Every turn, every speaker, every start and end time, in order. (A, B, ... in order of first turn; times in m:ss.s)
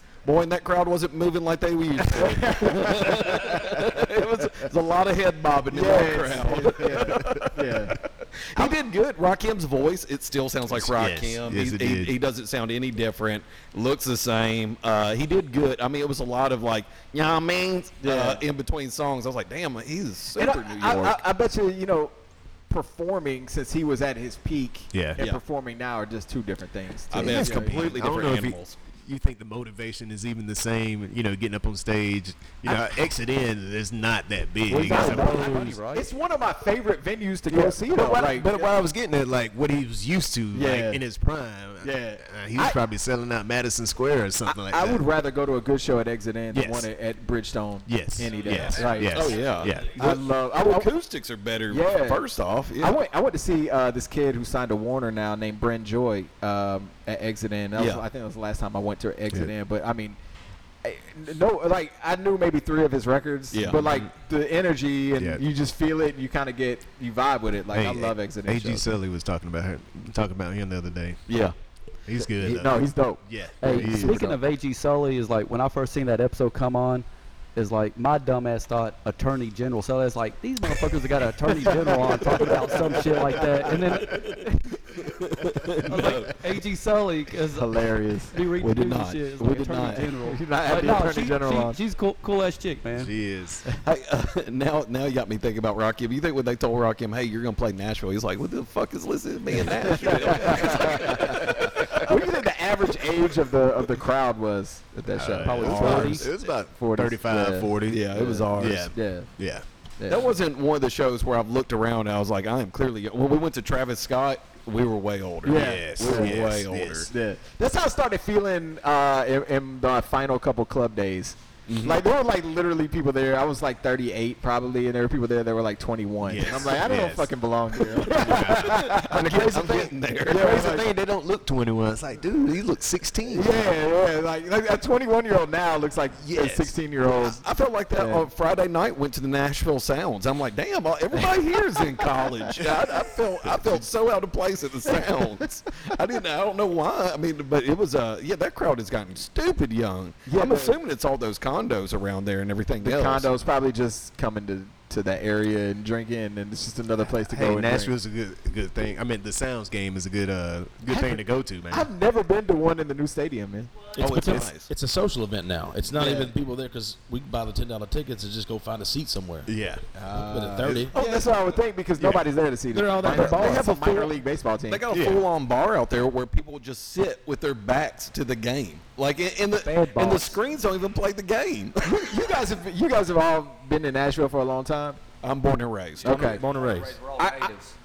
0:00.2-0:21.2 A
0:02.1-0:04.0 B
0:05.7-0:08.0 B
0:10.7-0:12.1 C
0:18.0-0:18.4 B
0:20.4-0:22.1 B
0:22.7-0:27.8 B
0:24.9-0:25.2 C
0:27.1-0:28.8 A
0:27.1-0:35.6 C
0:34.7-0:38.7 B
0:34.7-0:35.8 D
0:34.7-0:36.0 E
0:37.5-0:45.0 C
0:40.5-0:41.0 B
0:41.8-0:42.8 B
0:44.5-0:50.9 B
0:46.5-0:46.9 C
0:47.9-0:50.0 C
0:49.1-0:53.0 A
0:51.7-0:52.3 B
0:52.8-1:00.2 B
0:57.8-0:58.0 A
1:00.8-1:08.9 B
1:03.5-1:04.1 A
1:05.2-1:05.4 C
1:07.7-1:11.2 C
1:11.3-1:11.6 A
1:12.1-1:14.4 C
1:12.2-1:14.3 B
1:13.6-1:24.4 D
1:21.6-1:24.6 B
1:24.1-1:26.4 A
1:25.8-1:27.8 D
1:27.6-1:28.4 B
1:28.3-1:33.1 D
1:28.6-1:30.1 A
1:30.2-1:31.8 B
1:32.9-1:33.6 C
1:33.8-1:42.2 A
1:39.8-1:49.3 B
1:45.2-1:49.6 C
1:45.4-1:46.2 D
1:45.7-1:46.2 A
1:47.9-1:48.9 A
1:50.0-1:50.3 B
1:50.1-1:57.1 A
1:55.4-1:56.4 B
1:55.5-1:57.1 C
1:57.1-2:10.9 B
2:01.7-2:02.0 A
2:06.2-2:13.7 C
2:08.3-2:10.6 A
2:13.3-2:18.3 B
2:16.2-2:16.7 C
2:17.2-2:33.3 A
2:21.8-2:22.1 B
2:22.6-2:22.9 B
2:30.3-2:30.8 B
2:32.8-2:37.9 B
2:37.0-2:41.9 C
2:40.9-2:44.4 B
2:44.0-2:44.7 A
2:44.0-2:49.5 E
2:45.9-2:46.4 B
2:49.5-2:49.8 C
2:50.0-2:54.8 B
2:50.1-2:50.9 E
2:50.9-2:51.4 A
2:52.7-2:53.7 E
2:53.0-2:54.2 A
2:54.7-3:02.1 A
2:54.9-2:55.2 C
2:59.6-3:00.2 D
3:01.8-3:05.0 B
3:05.2-3:06.4 A
3:06.0-3:06.4 B
3:06.0-3:07.0 E
3:06.2-3:07.8 D
3:07.2-3:07.5 B